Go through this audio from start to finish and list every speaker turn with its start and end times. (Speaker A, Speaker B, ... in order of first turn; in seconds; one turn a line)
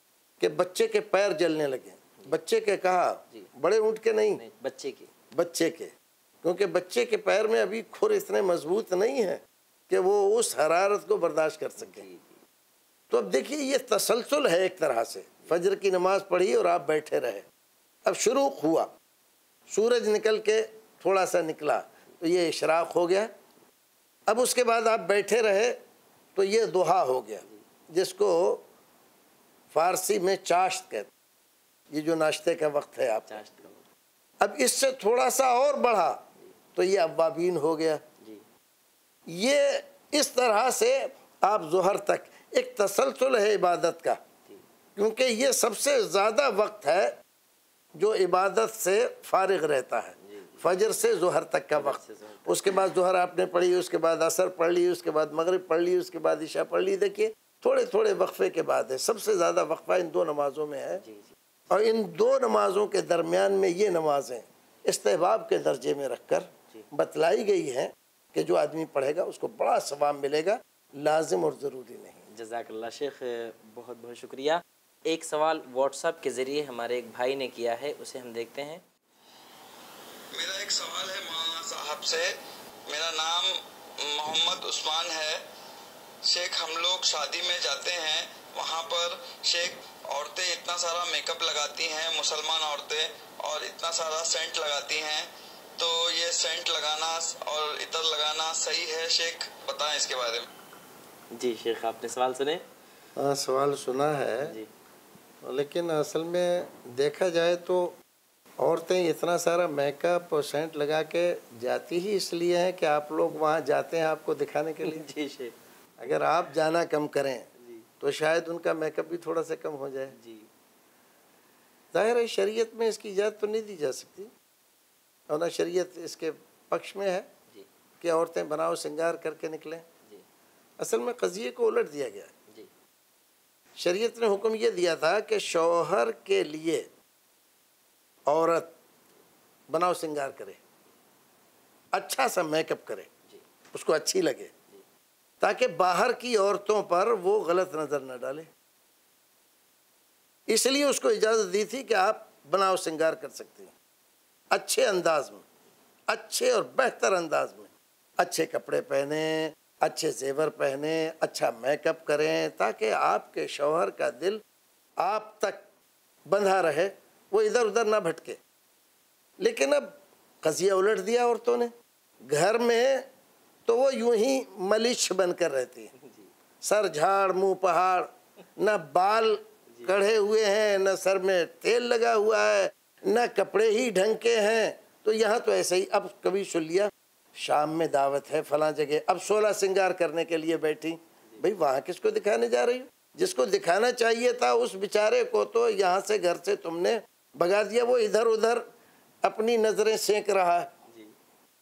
Speaker A: 0.4-4.4
Speaker B: 4.3-5.1
Speaker A: 5.3-12.1
Speaker B: 11.8-12.4
Speaker A: 13.1-17.4
Speaker A: 18.1-18.9
Speaker A: 19.7-23.3
Speaker A: 24.3-25.8
Speaker A: 26.4-28.6
Speaker A: 29.7-31.1
Speaker A: 31.9-33.4
Speaker B: 33.2-33.9
Speaker A: 34.4-36.2
Speaker A: 36.8-38.0
Speaker B: 38.2-38.5
Speaker A: 39.3-44.2
Speaker A: 45.0-47.2
Speaker A: 48.0-61.0
Speaker B: 50.2-50.7
Speaker B: 51.8-52.9
Speaker B: 61.0-61.4
Speaker A: 61.7-72.3
Speaker B: 72.3-78.8
Speaker C: 80.3-82.3
Speaker C: 82.9-83.5
Speaker C: 84.1-85.4
Speaker C: 86.3-100.5
Speaker B: 101.3-102.6
Speaker A: 103.2-104.6
Speaker B: 104.4-104.7
Speaker A: 105.4-108.0
Speaker A: 108.6-115.1
Speaker B: 114.8-115.6
Speaker A: 116.0-117.5
Speaker B: 117.6-117.9
Speaker A: 118.0-120.2
Speaker B: 120.1-120.5
Speaker A: 121.9-124.3
Speaker A: 125.3-127.3
Speaker A: 128.0-129.9
Speaker A: 130.8-132.3
Speaker A: 133.8-136.9
Speaker A: 138.3-138.7
Speaker A: 139.7-140.6
Speaker A: 141.9-143.1
Speaker A: 143.7-144.5
Speaker A: 145.4-148.5
Speaker A: 150.5-153.7
Speaker A: 154.5-155.4
Speaker A: 156.1-164.4
Speaker A: 165.0-165.7
Speaker A: 166.3-168.4
Speaker A: 169.4-171.7
Speaker A: 172.3-173.1
Speaker A: 173.7-175.9
Speaker B: 175.9-176.3
Speaker A: 176.6-198.7
Speaker B: 179.7-180.0
Speaker A: 199.2-200.7
Speaker B: 200.9-201.1